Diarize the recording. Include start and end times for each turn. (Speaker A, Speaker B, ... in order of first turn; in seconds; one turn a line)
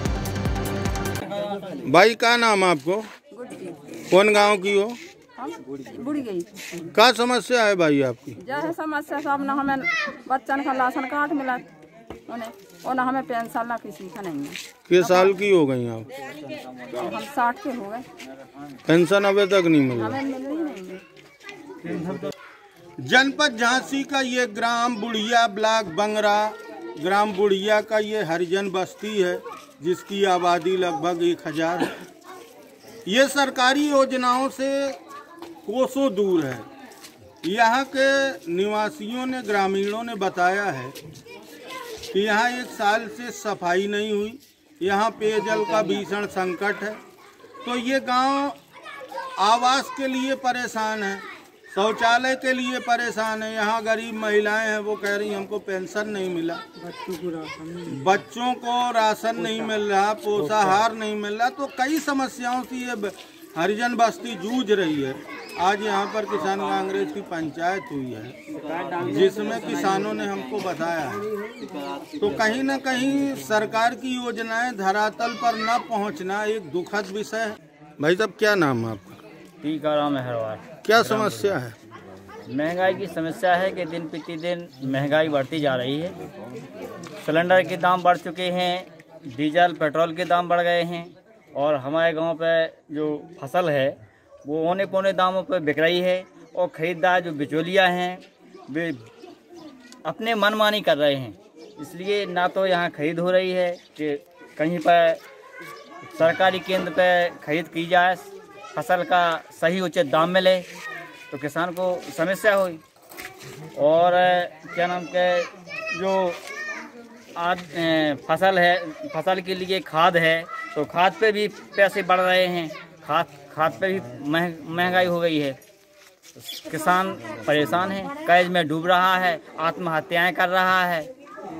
Speaker A: 1.7-3.1
Speaker B: 3.3-3.8
Speaker A: 4.1-5.0
Speaker B: 5.3-6.9
Speaker A: 6.9-8.4
Speaker B: 8.4-11.7
Speaker B: 12.3-15.4
Speaker A: 14.9-16.2
Speaker C: 16.5-16.9
Speaker B: 16.9-18.1
Speaker A: 18.9-20.2
Speaker B: 19.9-21.0
Speaker C: 21.8-22.3
Speaker A: 23.0-32.0
Speaker A: 33.0-35.0
Speaker A: 35.6-36.7
Speaker A: 37.4-41.0
Speaker A: 42.1-47.0
Speaker A: 47.6-48.6
Speaker A: 49.4-56.6
Speaker B: 57.1-57.7
Speaker A: 57.8-68.4
Speaker C: 68.5-70.1
Speaker A: 69.0-71.3
Speaker A: 72.2-79.2
Speaker C: 79.6-81.5
Speaker A: 80.8-81.7
Speaker C: 82.5-86.2
Speaker C: 87.2-99.0
Speaker C: 100.0-105.2
Speaker C: 106.1-110.7
Speaker C: 111.3-112.8
Speaker C: 113.7-116.4
Speaker C: 117.3-125.6
Speaker C: 126.4-131.1